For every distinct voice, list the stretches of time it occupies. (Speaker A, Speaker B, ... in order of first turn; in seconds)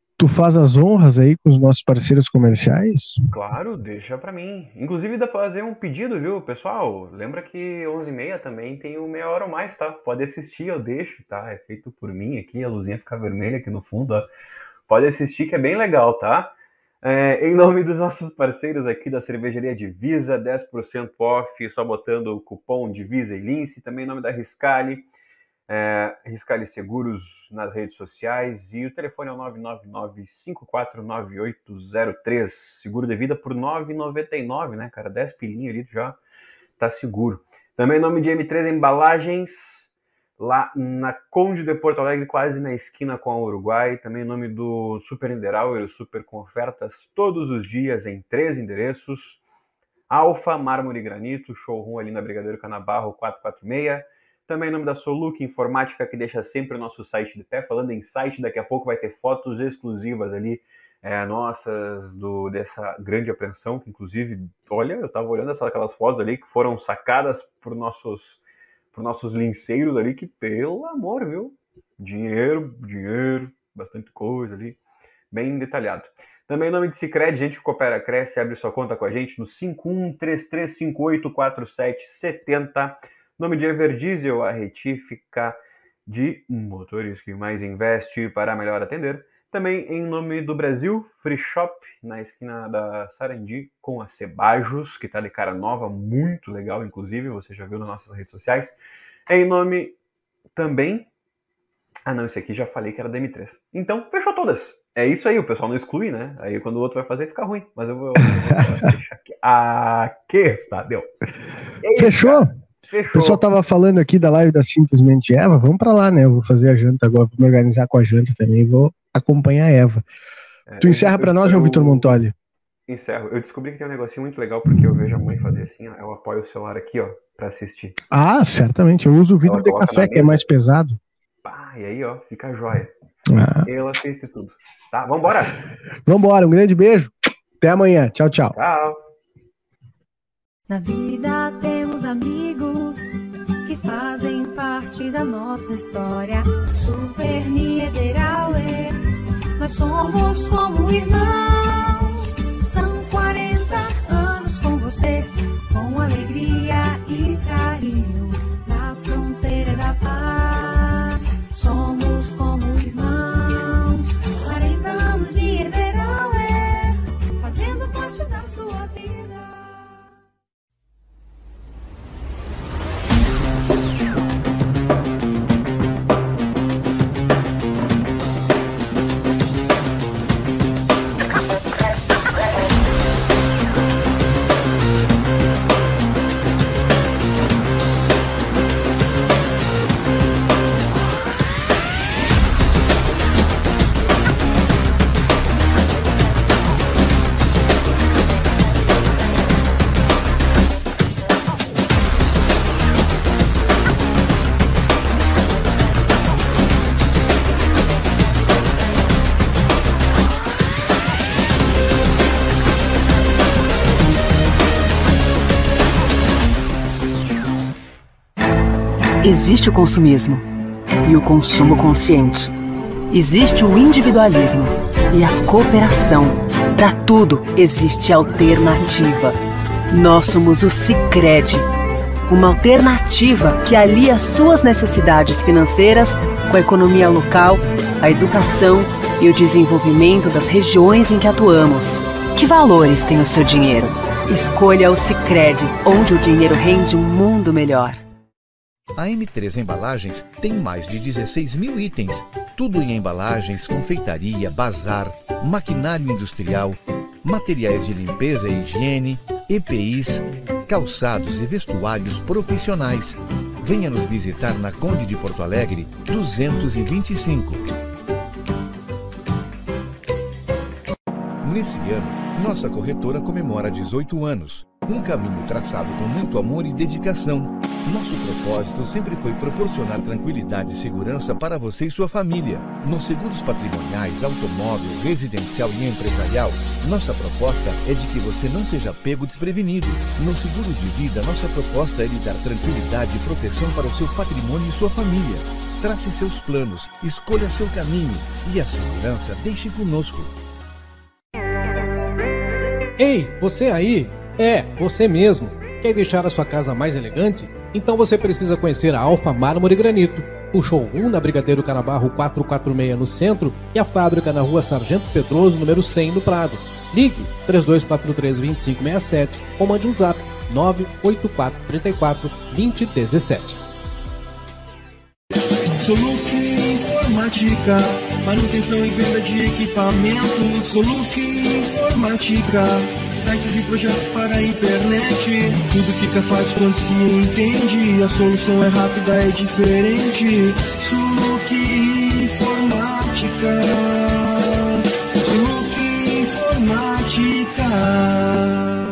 Speaker A: 0.2-3.2, 111.9-112.5, 113.1-120.0, 120.8-122.3, 128.1-131.0, 133.3-133.7, 136.1-138.5
Speaker B: 3.3-14.3, 14.9-25.1, 25.7-36.2, 36.8-39.9, 40.4-49.4, 50.1-68.4, 68.9-74.8, 75.3-100.0, 100.5-101.1, 102.0-111.1, 111.8-113.4, 120.7-122.2, 122.9-128.0, 129.4-130.5, 131.4-132.9, 133.6-135.7, 138.5-139.0
Speaker C: 140.7-143.1, 143.6-149.0, 149.6-169.9
Speaker D: 219.2-220.4, 221.0-222.5, 223.1-229.4, 229.9-231.7, 232.3-248.0
Speaker E: 248.9-267.7, 271.4-300.3
Speaker F: 303.0-323.6
Speaker G: 325.8-348.7